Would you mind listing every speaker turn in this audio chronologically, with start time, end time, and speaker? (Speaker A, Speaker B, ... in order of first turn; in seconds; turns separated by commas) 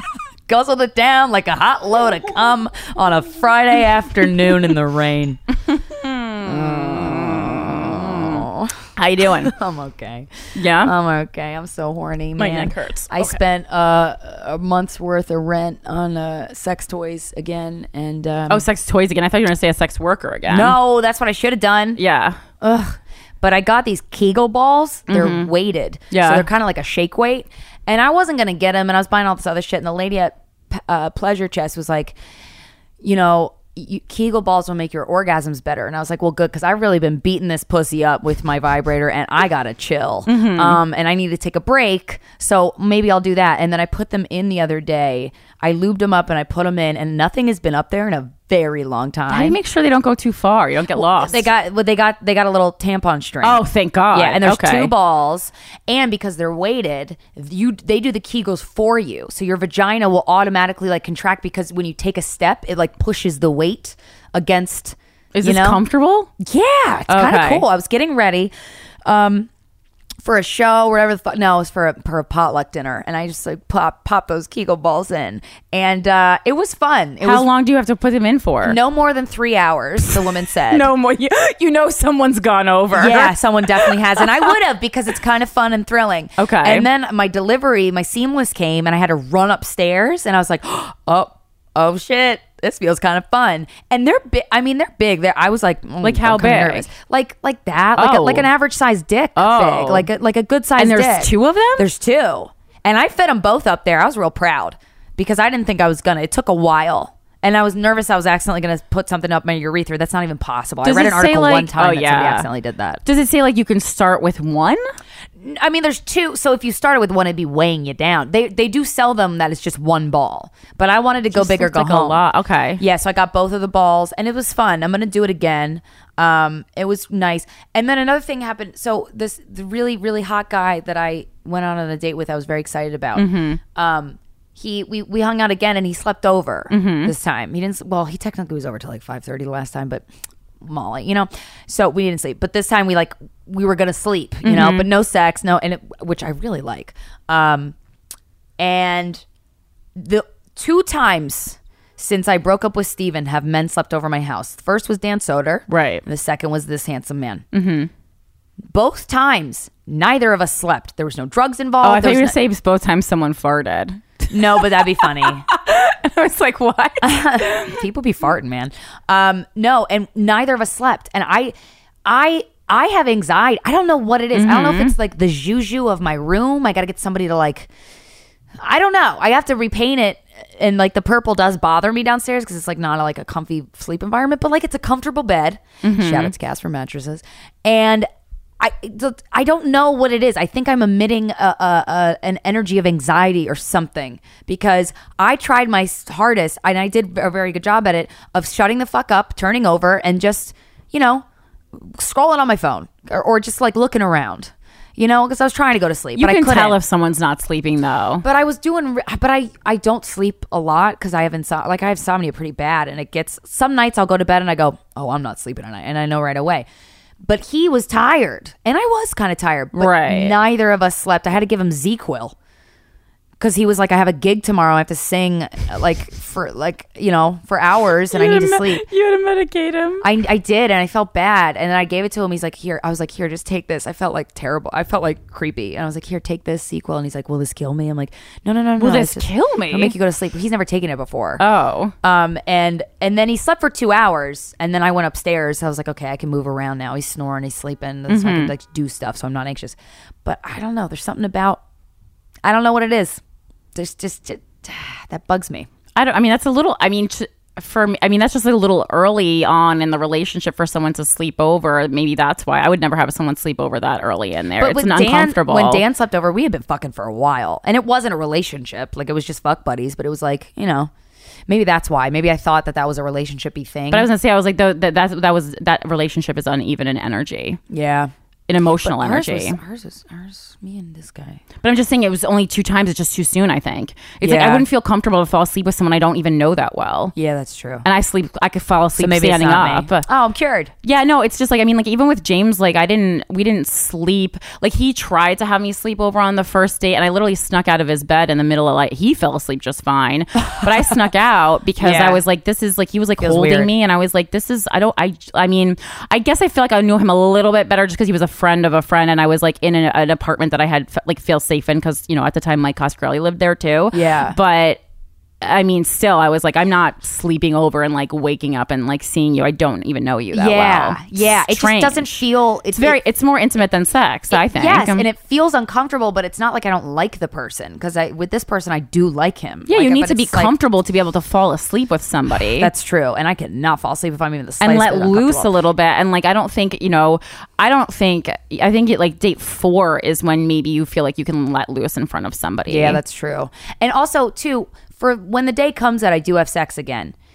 Speaker A: 0.5-5.4, Speaker B: 5.7-8.4, Speaker A: 6.5-8.8, Speaker B: 9.0-9.5, Speaker A: 9.4-18.6, Speaker B: 10.6-10.9, Speaker B: 12.4-13.4, Speaker B: 18.5-20.8, Speaker A: 20.5-22.0, Speaker B: 22.0-22.4, Speaker A: 22.6-32.2, Speaker B: 25.1-25.5, Speaker B: 26.1-26.5, Speaker A: 33.0-49.6, Speaker B: 40.3-40.8, Speaker B: 49.3-51.5, Speaker A: 50.9-65.8, Speaker B: 53.4-54.9, Speaker B: 65.3-66.3, Speaker A: 66.4-68.5, Speaker B: 67.1-67.7, Speaker A: 69.0-69.5, Speaker A: 70.2-77.5, Speaker B: 77.2-78.8, Speaker A: 78.6-80.9, Speaker B: 80.0-84.5, Speaker A: 82.9-113.0, Speaker B: 86.4-86.9, Speaker B: 96.0-96.9, Speaker B: 98.0-98.5, Speaker B: 99.4-100.1, Speaker B: 100.8-101.9, Speaker B: 110.8-112.5, Speaker B: 113.0-114.8, Speaker A: 115.4-122.2, Speaker B: 121.3-122.8, Speaker A: 122.8-140.1, Speaker B: 133.2-133.6, Speaker B: 136.7-137.1, Speaker A: 140.6-147.8, Speaker B: 144.4-144.9, Speaker A: 148.6-149.2, Speaker A: 149.9-157.4, Speaker B: 155.7-156.1, Speaker B: 157.5-157.9, Speaker A: 158.7-162.4, Speaker B: 161.8-167.8, Speaker A: 164.3-165.4, Speaker A: 167.0-177.7, Speaker B: 174.3-174.9, Speaker A: 178.6-188.1, Speaker B: 185.8-186.3, Speaker A: 188.6-206.8, Speaker B: 206.2-208.2, Speaker A: 208.2-216.7, Speaker A: 217.2-222.3, Speaker B: 219.7-220.4, Speaker A: 223.4-228.8, Speaker B: 228.1-230.1, Speaker A: 230.0-241.4, Speaker B: 238.8-239.9, Speaker B: 241.4-241.9, Speaker A: 242.0-251.6, Speaker B: 248.1-248.5, Speaker A: 252.4-253.2, Speaker A: 253.8-255.7, Speaker B: 256.0-265.8, Speaker A: 264.6-270.9, Speaker A: 271.5-274.1, Speaker B: 273.9-277.6, Speaker A: 277.7-278.1, Speaker B: 278.5-279.6, Speaker A: 278.8-281.4, Speaker B: 281.6-287.1, Speaker A: 284.2-284.7, Speaker A: 287.1-287.9, Speaker B: 287.8-290.1, Speaker A: 289.0-290.7, Speaker B: 290.8-314.8, Speaker A: 301.8-302.2, Speaker A: 303.2-303.7, Speaker A: 313.9-314.4, Speaker B: 315.4-322.1, Speaker A: 320.3-323.0, Speaker B: 322.8-325.1, Speaker A: 324.3-330.5, Speaker B: 329.7-332.7, Speaker A: 332.6-335.5, Speaker B: 334.6-343.0, Speaker A: 342.7-347.1